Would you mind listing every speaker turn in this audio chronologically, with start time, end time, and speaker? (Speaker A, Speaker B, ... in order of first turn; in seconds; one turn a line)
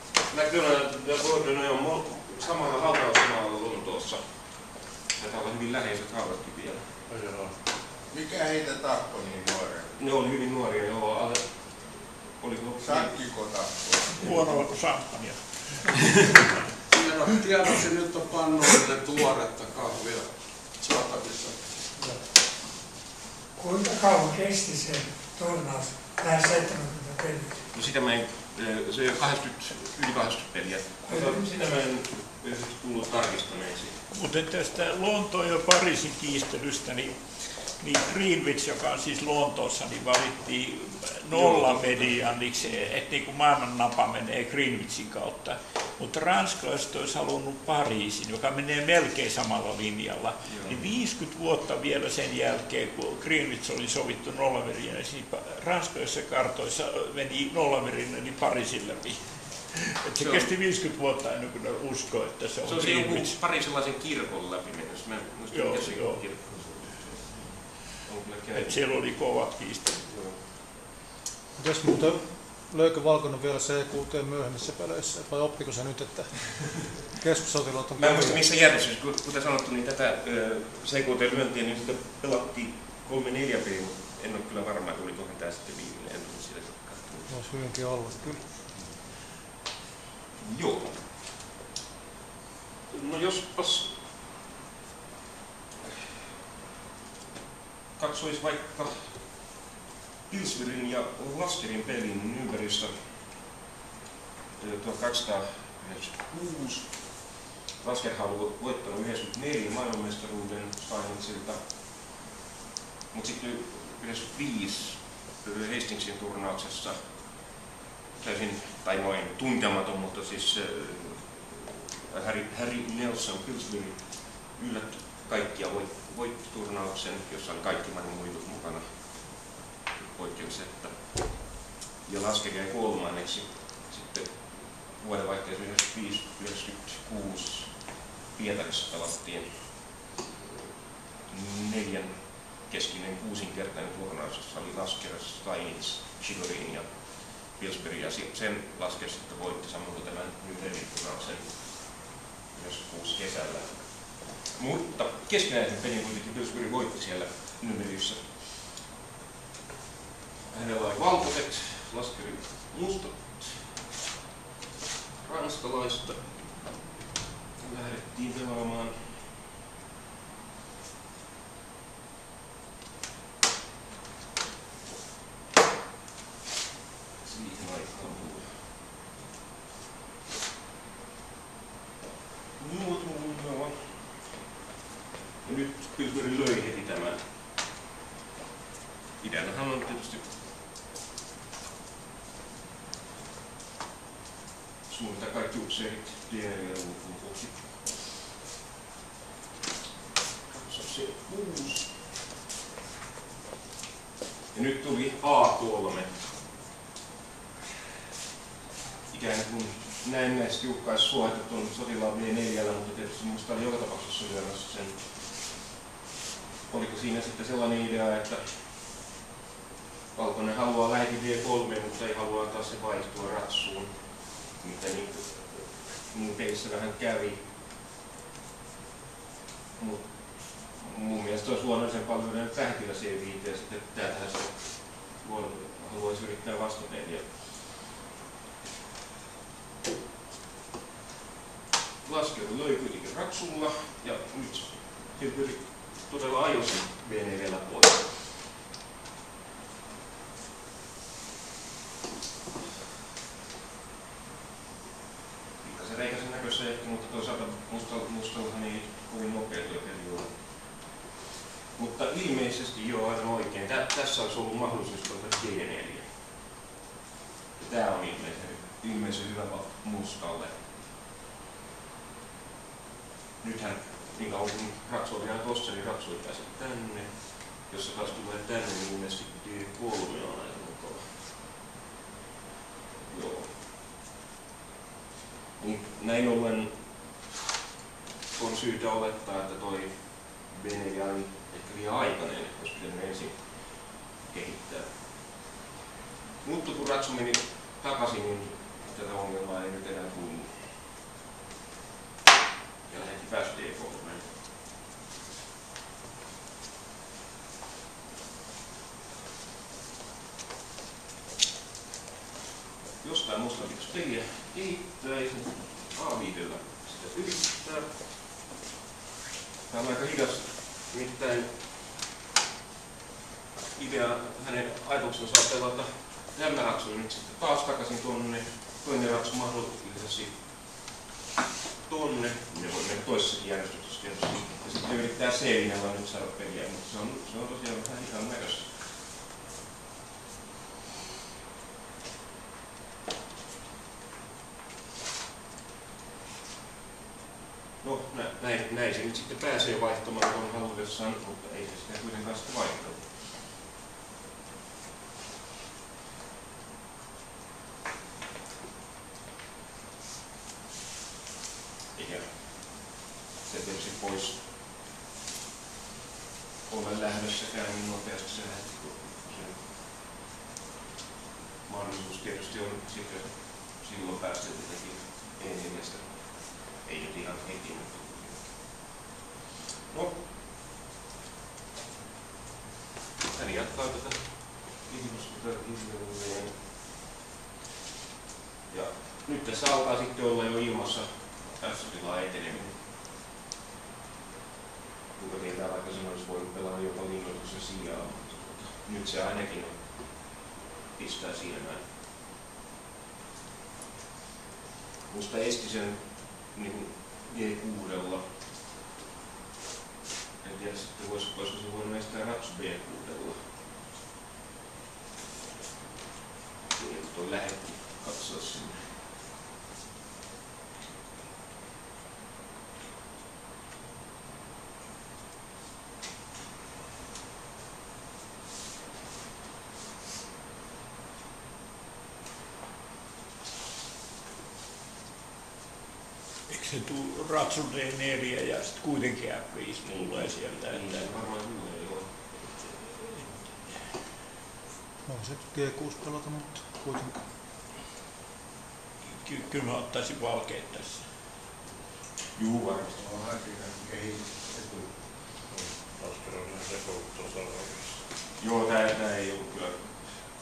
Speaker A: 0.3-6.9
Speaker B: 7.1-7.5
Speaker C: 8.1-9.9
Speaker A: 10.0-13.1
Speaker C: 12.8-14.6
Speaker D: 14.2-16.5
Speaker E: 16.9-21.8
Speaker F: 22.0-22.2
Speaker F: 23.6-27.6
Speaker A: 27.7-34.0
Speaker F: 31.1-31.5
Speaker D: 34.1-63.4
Speaker A: 41.3-42.2
Speaker A: 50.5-50.8
Speaker A: 60.2-60.5
Speaker A: 62.6-67.1
Speaker D: 65.5-66.3
Speaker A: 67.9-68.8
Speaker D: 68.5-70.0
Speaker A: 70.0-70.4
Speaker G: 71.6-78.4
Speaker A: 78.0-87.3
Speaker G: 87.3-88.7
Speaker A: 90.4-91.0
Speaker A: 92.9-93.9
Speaker A: 98.0-99.1
Speaker A: 100.3-102.9
Speaker A: 104.6-106.9
Speaker A: 107.8-111.6
Speaker A: 113.1-117.0
Speaker A: 118.2-128.9
Speaker A: 130.0-131.2
Speaker A: 132.1-139.7
Speaker A: 141.3-152.0
Speaker A: 152.5-158.3
Speaker A: 160.5-163.6
Speaker A: 165.2-166.8
Speaker A: 167.6-169.1
Speaker A: 177.2-178.6
Speaker A: 182.6-183.9
Speaker A: 185.4-187.2
Speaker A: 189.2-190.2
Speaker A: 194.9-197.6
Speaker A: 200.5-201.9
Speaker A: 204.5-206.2
Speaker A: 209.1-215.0
Speaker A: 216.7-218.5
Speaker A: 220.1-223.9
Speaker A: 224.5-227.4
Speaker A: 229.8-237.3
Speaker A: 242.0-248.1
Speaker A: 255.6-260.4
Speaker A: 261.8-266.1
Speaker A: 267.6-270.6
Speaker A: 273.4-281.1
Speaker A: 283.1-283.5
Speaker A: 285.6-286.8
Speaker A: 288.4-294.9
Speaker A: 296.4-300.6
Speaker A: 302.9-304.3
Speaker A: 313.0-317.9
Speaker A: 319.7-321.5
Speaker A: 323.8-330.4
Speaker A: 331.9-338.7
Speaker A: 347.8-353.1
Speaker A: 361.9-362.9
Speaker A: 363.4-364.4
Speaker A: 366.7-369.6
Speaker A: 371.7-378.5
Speaker A: 379.9-380.2
Speaker A: 383.3-386.5
Speaker A: 388.7-392.8
Speaker A: 395.2-400.4
Speaker A: 401.0-401.8
Speaker A: 405.1-408.2
Speaker A: 410.4-413.4
Speaker A: 416.8-418.9
Speaker D: 436.5-441.1
Speaker A: 439.9-442.1
Speaker G: 445.1-447.2
Speaker D: 449.1-451.0
Speaker A: 452.4-453.0
Speaker C: 453.1-454.1
Speaker B: 455.5-458.0
Speaker A: 458.4-460.2